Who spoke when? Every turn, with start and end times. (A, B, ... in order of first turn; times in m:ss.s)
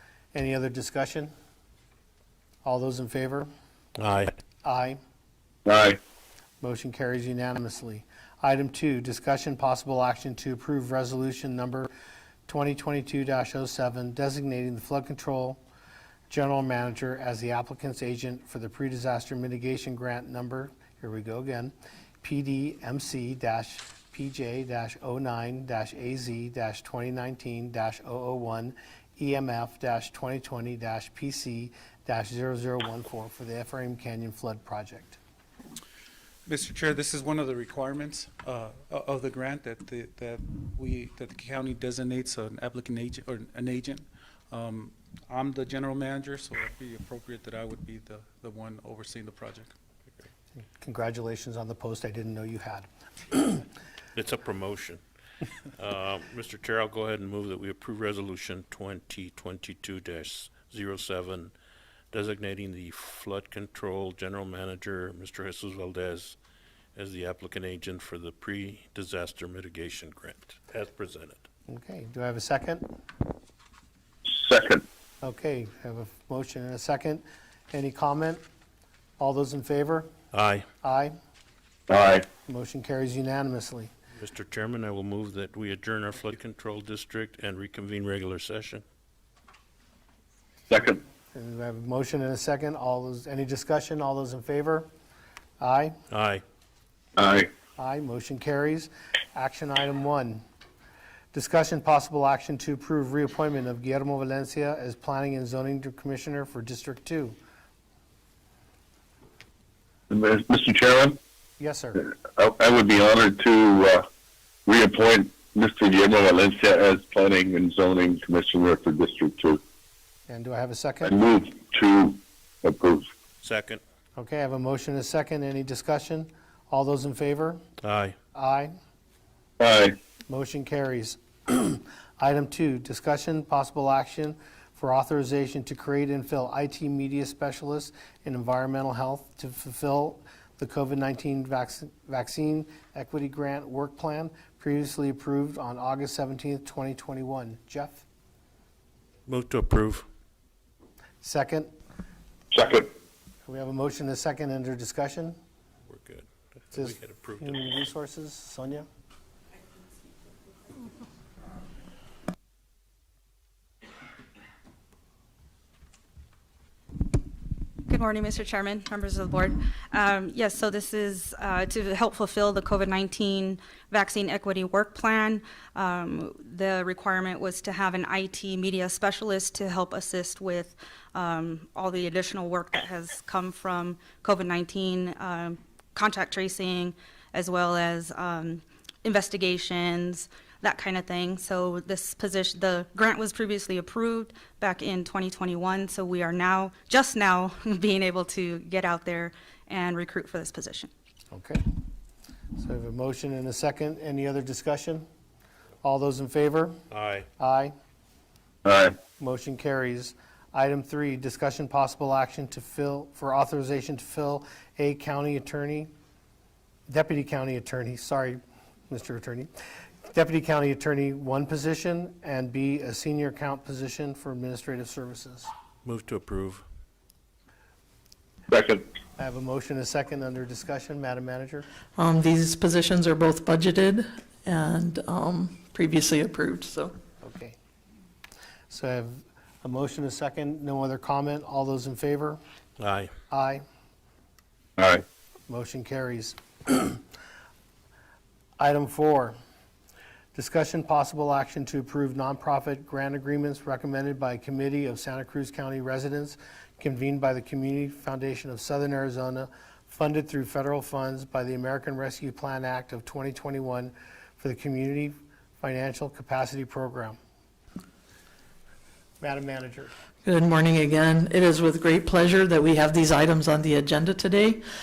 0:00.3-0:01.3 A
0:02.6-0:03.5 A
0:04.0-0:04.3 B
0:04.6-0:05.0 A
0:05.6-0:06.0 C
0:06.6-0:11.9 A
0:12.5-0:15.6 A
0:16.3-0:35.2 A
0:36.4-0:49.7 D
0:50.6-0:53.6 A
0:54.1-0:55.0 B
0:55.8-1:01.5 B
1:02.1-1:06.4 B
1:06.9-1:11.4 B
1:11.7-1:12.9 A
1:14.2-1:14.8 C
1:15.2-1:18.4 A
1:19.2-1:20.1 A
1:20.3-1:20.6 B
1:20.8-1:21.2 A
1:21.9-1:22.3 C
1:22.4-1:23.9 A
1:24.2-1:28.8 B
1:30.7-1:31.0 C
1:31.3-1:34.9 A
1:35.6-1:36.0 A
1:36.1-1:36.4 B
1:37.2-1:37.5 C
1:37.8-1:40.4 A
1:41.3-1:47.4 A
1:50.1-1:51.2 C
1:51.6-1:52.0 A
1:52.0-1:54.1 C
1:54.6-1:59.6 C
2:00.3-2:01.1 A
2:01.0-2:03.0 C
2:03.4-2:03.8 B
2:04.2-2:07.6 A
2:07.8-2:08.2 B
2:08.3-2:08.7 A
2:09.6-2:10.0 C
2:10.3-2:28.0 A
2:29.3-2:30.0 B
2:31.2-2:31.7 A
2:32.5-2:32.9 C
2:33.4-2:35.4 A
2:35.9-2:37.6 B
2:36.7-2:38.8 A
2:47.8-3:20.9 E
3:21.3-3:21.6 A
3:22.6-3:25.0 A
3:25.8-3:26.8 A
3:26.9-3:27.3 B
3:27.4-3:27.7 A
3:28.6-3:29.0 C
3:29.2-3:35.9 A
3:36.9-3:39.5 A
3:40.1-3:45.5 A
3:45.8-3:46.6 B
3:48.5-3:48.8 C
3:49.2-3:51.7 A
3:52.0-3:56.9 F
3:57.2-3:57.6 A
3:58.7-4:02.4 A
4:02.8-4:03.1 B
4:03.3-4:03.6 A
4:04.8-4:05.0 C
4:05.5-4:07.0 A
4:08.6-4:09.3 A
4:10.3-4:27.2 A
4:29.2-4:29.9 A
4:30.2-4:34.6 F